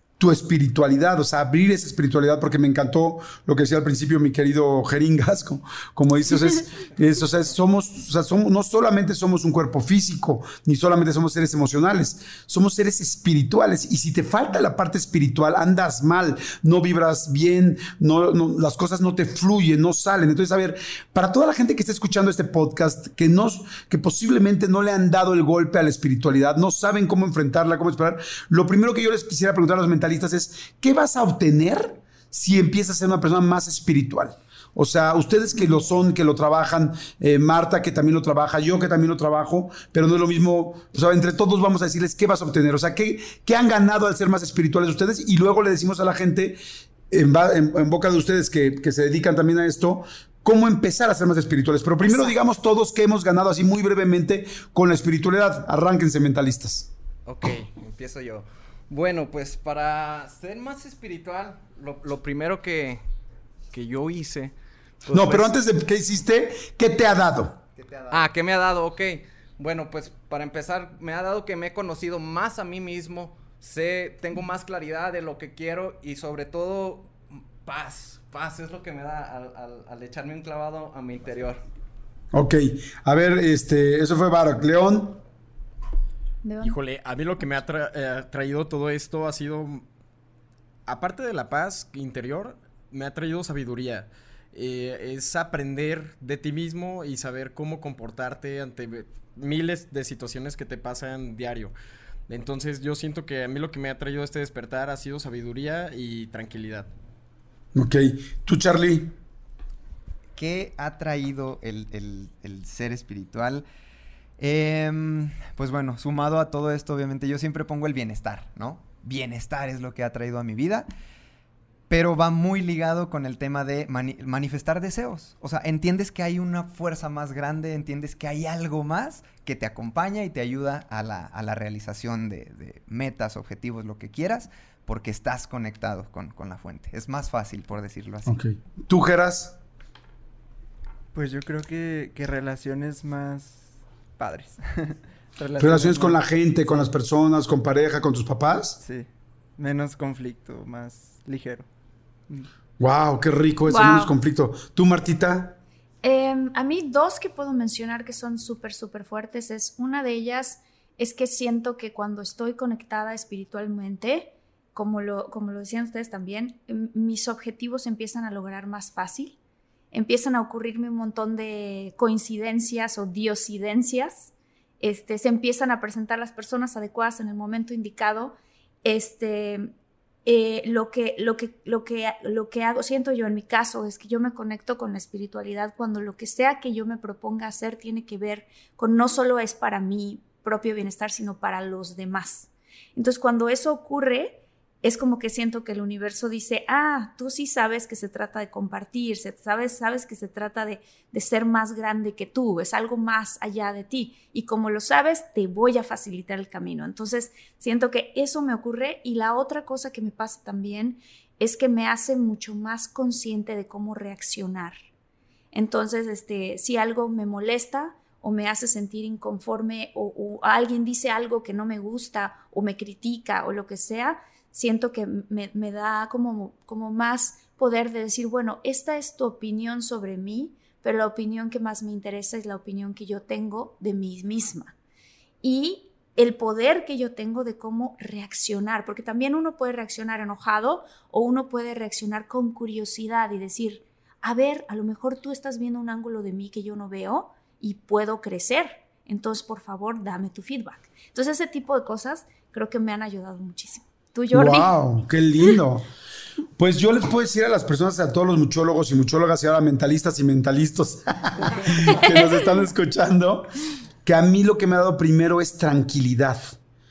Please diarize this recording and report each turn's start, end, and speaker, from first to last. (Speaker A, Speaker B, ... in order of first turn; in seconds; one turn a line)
Speaker A: 0.2-46.6
Speaker A: 47.1-56.9
Speaker B: 52.0-52.4
Speaker C: 57.3-63.0
Speaker C: 63.7-65.5
Speaker A: 65.1-67.6
Speaker D: 67.9-68.2
Speaker C: 68.1-81.6
Speaker A: 82.3-85.2
Speaker B: 86.4-86.8
Speaker E: 86.6-89.8
Speaker E: 90.9-101.7
Speaker E: 102.3-106.9
Speaker A: 107.7-109.1
Speaker D: 110.3-113.7
Speaker D: 114.4-120.9
Speaker D: 121.9-138.4
Speaker A: 138.3-139.6
Speaker F: 141.1-146.2
Speaker A: 145.6-148.8
Speaker F: 148.8-149.1
Speaker F: 149.6-151.7
Speaker A: 152.8-155.6
Speaker B: 153.7-154.1
Speaker B: 156.0-169.4
Speaker B: 169.9-179.7
Speaker B: 180.2-214.8
Speaker B: 215.5-234.7
Speaker B: 235.4-254.7
Speaker A: 254.3-255.9
Speaker A: 256.6-263.5
Speaker B: 261.9-262.2
Speaker A: 264.0-266.6